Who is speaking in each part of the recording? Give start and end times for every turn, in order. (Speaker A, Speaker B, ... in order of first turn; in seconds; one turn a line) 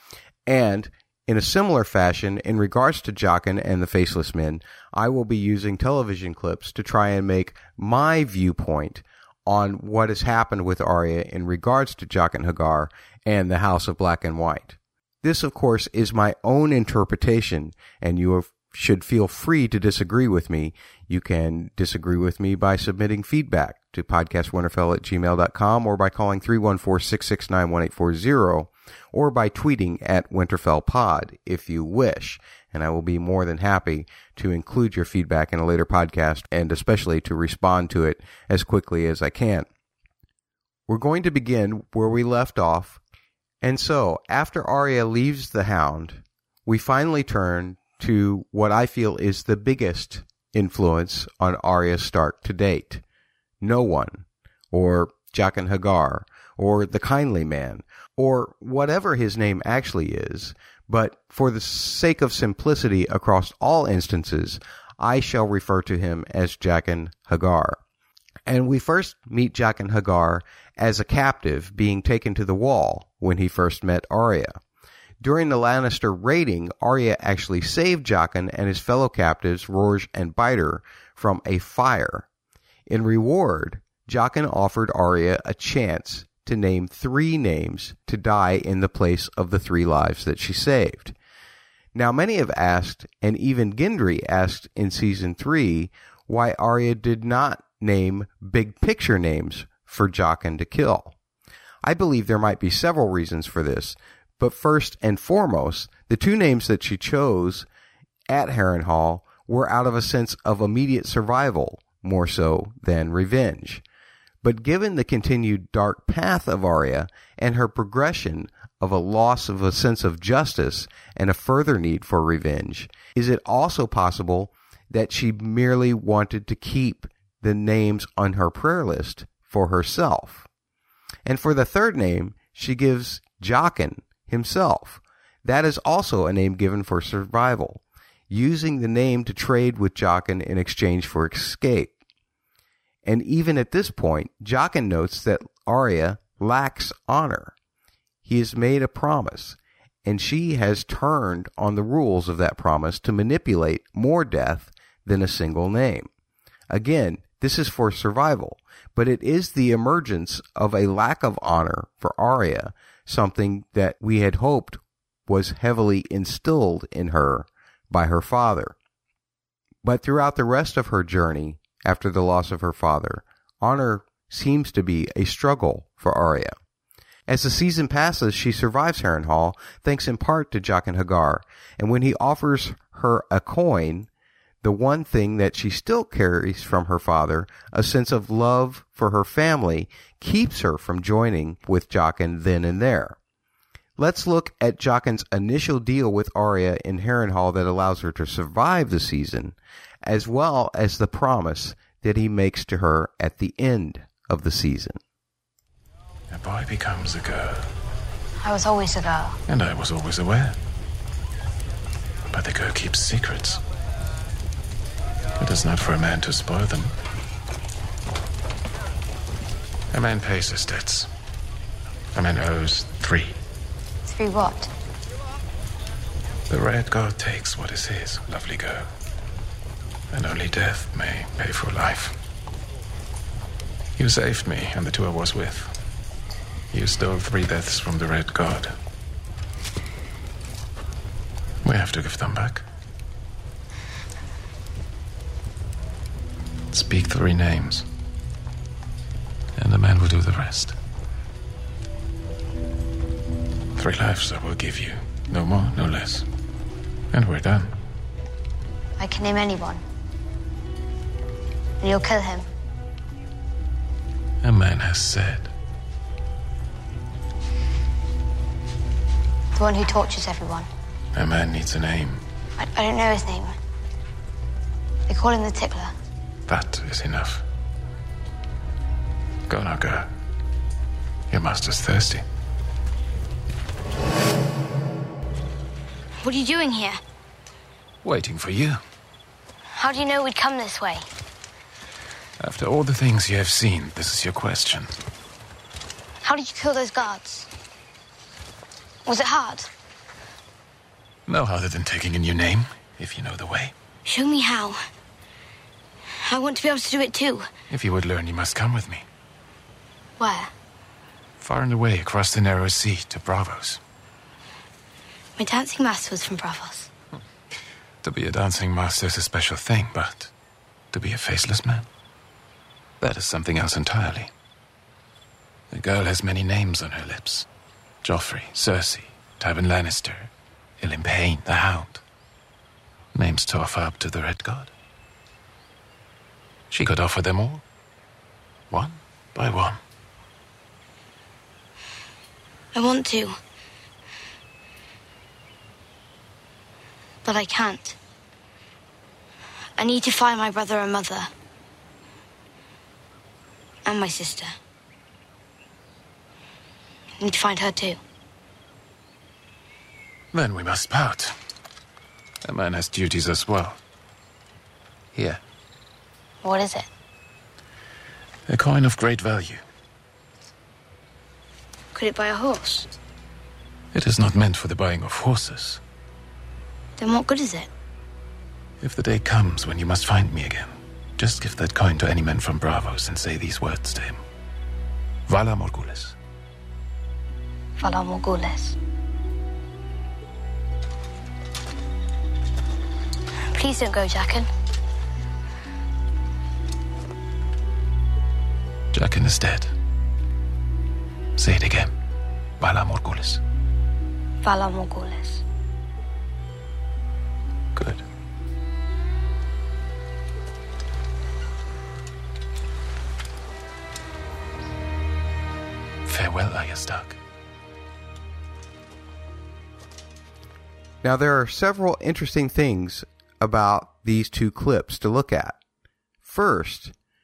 Speaker A: 0.5-39.7
Speaker A: 40.9-43.0
Speaker A: 43.6-53.0
Speaker A: 53.6-67.8
Speaker A: 68.5-74.6
Speaker A: 75.2-82.2
Speaker A: 82.9-91.1
Speaker A: 91.9-101.1
Speaker A: 101.8-107.7
Speaker A: 108.3-113.8
Speaker A: 114.4-130.4
Speaker A: 131.2-141.9
Speaker A: 143.0-147.5
Speaker A: 148.2-156.1
Speaker A: 156.7-168.7
Speaker A: 169.8-176.6
Speaker A: 177.3-184.1
Speaker A: 184.6-193.2
Speaker A: 194.0-205.0
Speaker B: 206.3-207.7
Speaker C: 208.4-209.4
Speaker B: 209.5-210.6
Speaker B: 212.3-213.6
Speaker B: 215.4-216.9
Speaker B: 219.9-221.1
Speaker B: 222.1-223.4
Speaker C: 224.0-224.7
Speaker B: 226.5-228.9
Speaker B: 230.1-232.2
Speaker B: 234.0-235.8
Speaker B: 236.7-238.8
Speaker B: 241.6-242.7
Speaker B: 246.7-247.8
Speaker B: 249.6-250.8
Speaker B: 253.8-256.3
Speaker B: 257.1-257.7
Speaker C: 259.0-259.8
Speaker C: 261.8-262.5
Speaker B: 264.4-265.5
Speaker C: 269.5-270.7
Speaker B: 271.1-272.2
Speaker C: 272.6-273.6
Speaker C: 275.1-275.9
Speaker B: 276.5-277.4
Speaker B: 279.5-280.1
Speaker B: 281.3-282.2
Speaker C: 286.2-287.0
Speaker B: 288.0-288.8
Speaker C: 289.7-291.1
Speaker B: 292.4-295.0
Speaker C: 296.2-297.5
Speaker C: 299.1-299.7
Speaker B: 301.2-303.7
Speaker C: 304.1-304.8
Speaker C: 306.2-307.5
Speaker B: 307.7-309.1
Speaker C: 310.2-310.5
Speaker B: 311.4-313.8
Speaker C: 315.4-316.9
Speaker B: 318.0-320.3
Speaker B: 320.9-321.9
Speaker B: 323.0-324.3
Speaker B: 325.7-327.5
Speaker B: 328.0-332.0
Speaker B: 333.1-334.7
Speaker B: 336.7-337.6
Speaker B: 338.7-339.8
Speaker C: 342.7-343.4
Speaker C: 347.2-348.0
Speaker C: 349.8-351.3
Speaker C: 353.8-354.6
Speaker C: 357.2-358.0
Speaker B: 360.3-361.4
Speaker B: 362.4-363.8
Speaker B: 365.1-365.4
Speaker C: 366.4-366.9
Speaker B: 368.5-369.6
Speaker C: 371.9-372.9
Speaker B: 373.9-375.8
Speaker C: 377.0-377.7
Speaker B: 378.8-384.2
Speaker B: 385.3-386.2
Speaker C: 387.8-388.8
Speaker C: 393.5-394.5
Speaker B: 398.9-399.7
Speaker B: 401.4-401.9
Speaker B: 402.6-403.4
Speaker C: 404.4-405.4
Speaker B: 407.7-408.0
Speaker B: 416.0-417.2
Speaker A: 421.0-425.6
Speaker A: 426.2-426.9